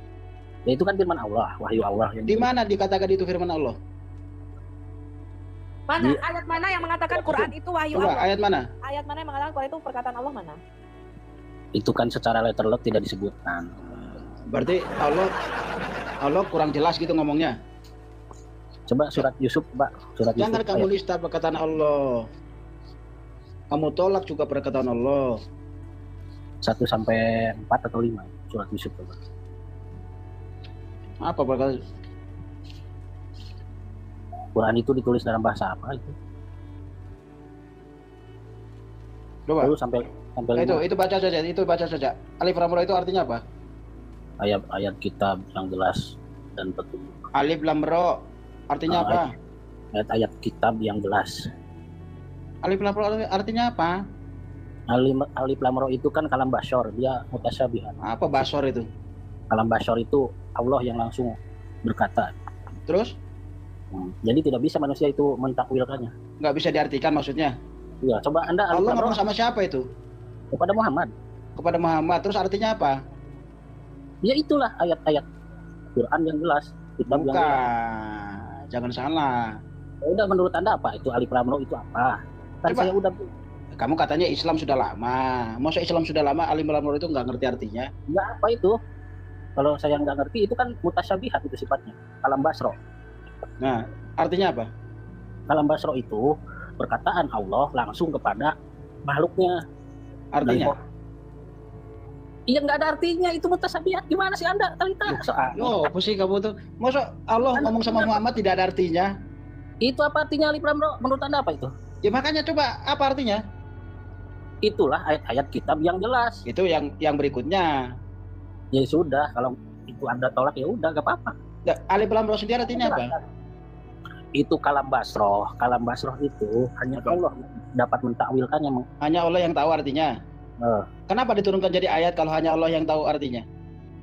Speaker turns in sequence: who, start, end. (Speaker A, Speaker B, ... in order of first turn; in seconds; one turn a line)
Speaker A: 0.7-2.5
Speaker B: 2.3-3.8
Speaker C: 5.9-8.3
Speaker A: 7.1-7.5
Speaker B: 8.0-8.6
Speaker C: 8.8-10.6
Speaker A: 11.8-13.8
Speaker B: 14.5-15.3
Speaker B: 16.2-17.5
Speaker A: 18.9-20.9
Speaker B: 20.4-22.3
Speaker B: 23.7-25.4
Speaker A: 26.6-29.2
Speaker B: 31.2-31.8
Speaker A: 34.5-36.1
Speaker B: 39.5-39.7
Speaker A: 39.6-40.8
Speaker B: 40.6-43.4
Speaker A: 44.4-47.2
Speaker B: 47.4-49.3
Speaker A: 48.9-49.2
Speaker A: 49.9-51.5
Speaker B: 52.6-54.0
Speaker A: 54.9-58.0
Speaker B: 58.0-58.9
Speaker A: 59.5-62.3
Speaker B: 62.9-63.1
Speaker A: 63.9-66.1
Speaker B: 66.4-67.5
Speaker A: 68.0-69.2
Speaker B: 68.7-69.8
Speaker A: 70.5-71.1
Speaker B: 71.6-73.0
Speaker A: 74.2-75.2
Speaker A: 76.0-77.6
Speaker B: 77.1-79.6
Speaker A: 80.0-83.3
Speaker B: 82.7-82.9
Speaker B: 83.8-87.9
Speaker A: 88.1-88.8
Speaker A: 89.6-92.8
Speaker B: 93.6-94.7
Speaker A: 95.5-98.5
Speaker A: 99.0-99.6
Speaker B: 100.3-100.7
Speaker A: 100.4-100.8
Speaker A: 102.5-105.9
Speaker B: 105.1-109.1
Speaker A: 107.5-108.2
Speaker A: 109.8-111.7
Speaker B: 112.0-113.4
Speaker A: 114.6-116.4
Speaker B: 116.5-117.8
Speaker A: 118.7-121.3
Speaker B: 121.7-123.1
Speaker A: 122.7-123.2
Speaker A: 124.4-128.9
Speaker B: 127.0-127.2
Speaker B: 129.0-130.1
Speaker A: 130.6-130.9
Speaker B: 131.1-133.4